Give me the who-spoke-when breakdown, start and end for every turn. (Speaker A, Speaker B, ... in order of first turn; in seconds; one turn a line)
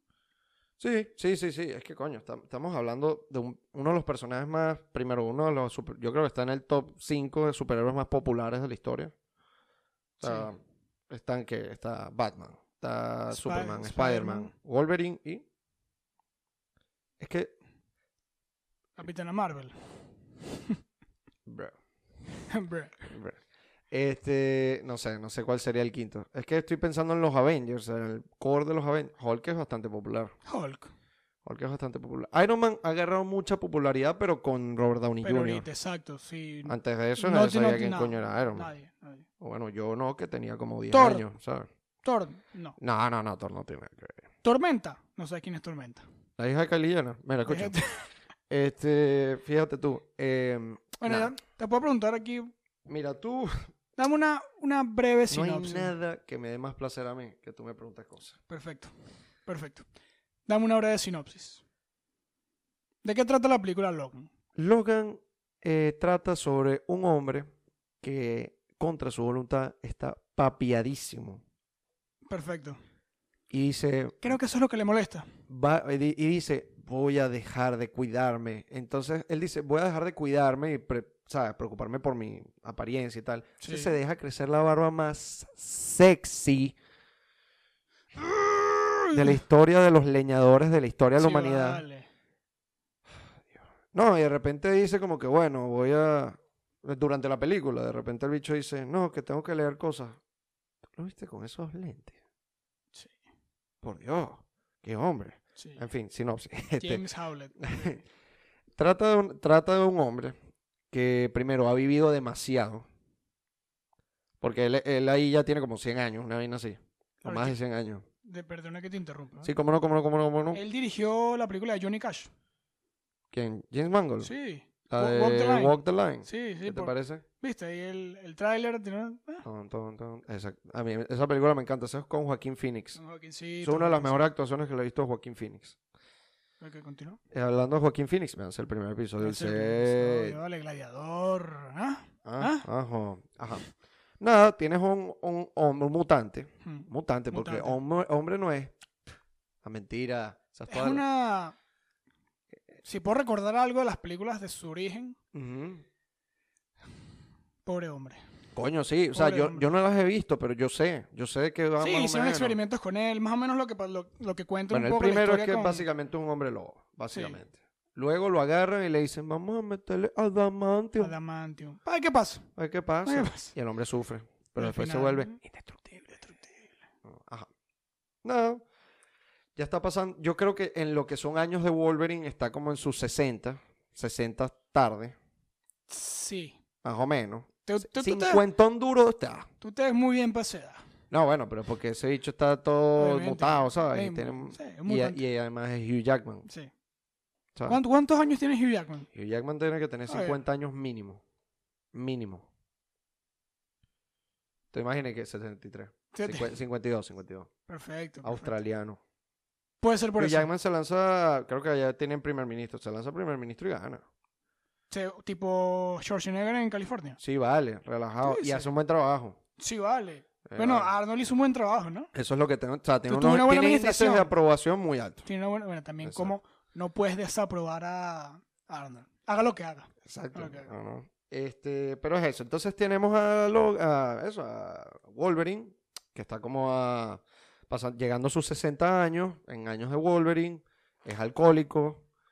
Speaker A: 0.8-9.1
Speaker A: 10.2-15.4
Speaker B: 10.2-10.5
Speaker B: 13.3-14.5
Speaker A: 17.2-17.5
Speaker B: 19.0-20.8
Speaker A: 21.4-21.7
Speaker B: 22.5-23.1
Speaker A: 23.1-23.4
Speaker A: 23.9-30.3
Speaker B: 30.4-30.9
Speaker A: 31.4-35.6
Speaker B: 35.2-39.2
Speaker A: 36.6-38.7
Speaker A: 39.4-41.7
Speaker B: 40.9-41.2
Speaker B: 42.0-42.8
Speaker A: 42.8-44.3
Speaker B: 44.4-46.0
Speaker A: 46.4-47.8
Speaker B: 47.4-48.0
Speaker A: 48.5-51.3
Speaker B: 51.0-52.5
Speaker A: 52.9-53.7
Speaker B: 54.0-55.9
Speaker A: 55.3-58.4
Speaker B: 58.5-58.9
Speaker B: 59.5-59.9
Speaker B: 60.5-61.6
Speaker B: 63.0-64.3
Speaker A: 64.6-67.5
Speaker A: 68.0-71.4
Speaker B: 72.3-72.8
Speaker A: 73.5-74.3
Speaker B: 74.2-75.3
Speaker A: 75.5-86.7
Speaker B: 83.6-83.9
Speaker A: 88.2-91.8
Speaker B: 91.2-92.1
Speaker A: 93.5-100.2
Speaker A: 101.0-102.2
Speaker A: 103.8-107.0
Speaker B: 105.6-105.8
Speaker B: 106.8-108.0
Speaker A: 107.6-108.0
Speaker A: 108.8-110.3
Speaker A: 110.9-112.8
Speaker A: 114.4-118.0
Speaker B: 117.2-117.5
Speaker B: 118.2-119.5
Speaker A: 119.4-120.6
Speaker B: 120.5-122.3
Speaker A: 123.3-124.3
Speaker B: 124.2-129.4
Speaker A: 124.9-127.2
Speaker A: 129.4-133.0
Speaker B: 132.9-134.3
Speaker A: 133.6-135.8
Speaker B: 136.6-137.2
Speaker A: 137.3-140.4
Speaker B: 139.2-142.7
Speaker A: 142.2-143.6
Speaker A: 144.2-148.7
Speaker B: 146.6-147.8
Speaker A: 149.6-151.0
Speaker B: 150.7-151.6
Speaker B: 152.8-155.2
Speaker A: 155.3-155.8
Speaker B: 157.6-158.2
Speaker A: 158.5-162.6
Speaker B: 159.1-159.7
Speaker B: 161.8-165.9
Speaker A: 164.7-171.1
Speaker B: 167.1-167.4
Speaker B: 171.0-172.5
Speaker A: 172.6-175.8
Speaker B: 173.0-173.5
Speaker B: 174.6-176.8
Speaker A: 177.0-177.5
Speaker A: 178.2-178.6
Speaker A: 179.5-185.1
Speaker B: 185.9-186.6
Speaker A: 186.8-189.5
Speaker B: 187.6-188.4
Speaker B: 189.6-190.8
Speaker A: 191.1-196.4
Speaker B: 193.0-195.2
Speaker B: 197.7-199.1
Speaker A: 199.1-201.2
Speaker B: 200.1-200.4
Speaker A: 201.9-202.5
Speaker A: 204.7-207.5
Speaker B: 206.1-206.5
Speaker B: 207.7-208.5
Speaker A: 208.2-209.0
Speaker B: 209.8-210.5
Speaker A: 210.2-214.0
Speaker B: 214.9-217.2
Speaker A: 217.2-219.4
Speaker B: 218.2-218.7
Speaker B: 219.6-222.1
Speaker A: 220.4-220.9
Speaker A: 222.1-225.2
Speaker B: 223.1-224.3
Speaker B: 225.2-230.7
Speaker A: 226.0-226.3
Speaker A: 230.0-242.0